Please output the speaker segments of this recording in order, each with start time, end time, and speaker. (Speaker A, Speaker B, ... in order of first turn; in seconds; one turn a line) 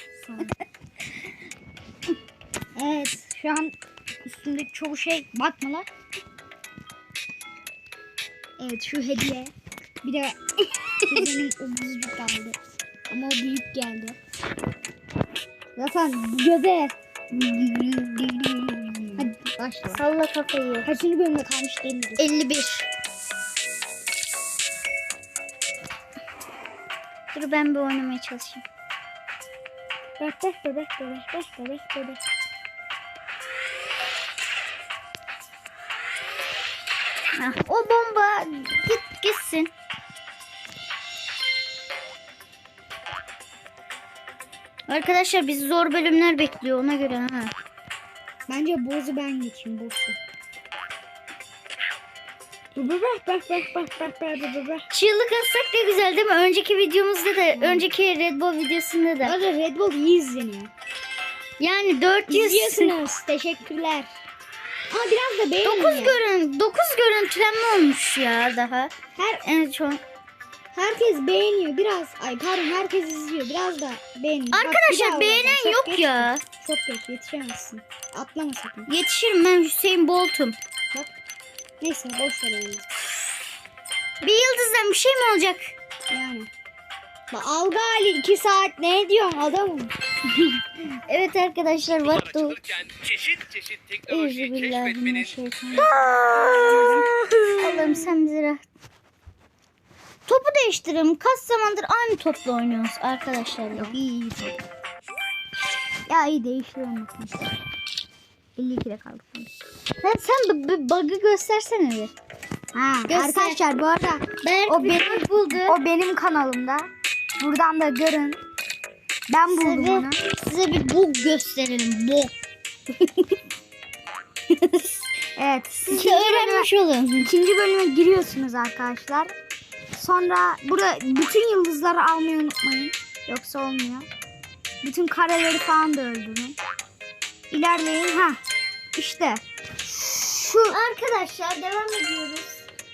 Speaker A: 0.2-0.6
Speaker A: 2.8-5.9
Speaker A: 8.6-10.4
Speaker A: 11.0-12.6
Speaker A: 13.1-14.2
Speaker A: 15.8-16.9
Speaker B: 17.3-19.2
Speaker A: 19.2-20.0
Speaker B: 19.9-20.9
Speaker A: 20.8-22.2
Speaker B: 22.2-22.9
Speaker B: 27.3-28.6
Speaker A: 30.2-32.2
Speaker B: 37.4-39.7
Speaker B: 44.9-47.5
Speaker A: 48.5-50.2
Speaker A: 52.8-54.9
Speaker B: 54.9-59.4
Speaker A: 57.5-57.9
Speaker A: 59.2-60.7
Speaker B: 61.6-63.0
Speaker A: 62.3-64.1
Speaker A: 64.9-66.2
Speaker B: 65.6-70.0
Speaker A: 69.2-69.4
Speaker A: 70.7-78.9
Speaker B: 74.5-76.4
Speaker B: 78.9-80.6
Speaker A: 81.8-82.9
Speaker B: 84.2-85.7
Speaker A: 86.1-86.5
Speaker A: 87.3-89.9
Speaker B: 90.9-92.6
Speaker C: 92.1-95.3
Speaker B: 94.1-98.7
Speaker A: 95.8-97.5
Speaker B: 100.3-104.0
Speaker A: 103.7-104.6
Speaker A: 106.1-107.5
Speaker A: 108.6-109.5
Speaker B: 110.0-112.1
Speaker A: 112.7-118.4
Speaker B: 113.1-113.6
Speaker B: 114.4-115.8
Speaker A: 119.3-120.2
Speaker B: 119.5-122.3
Speaker B: 123.0-123.3
Speaker B: 124.5-125.0
Speaker A: 125.4-126.7
Speaker B: 125.9-127.3
Speaker A: 127.2-129.3
Speaker A: 129.9-134.1
Speaker A: 134.8-136.6
Speaker A: 137.5-138.4
Speaker A: 138.9-139.4
Speaker A: 139.9-140.8
Speaker B: 140.7-142.7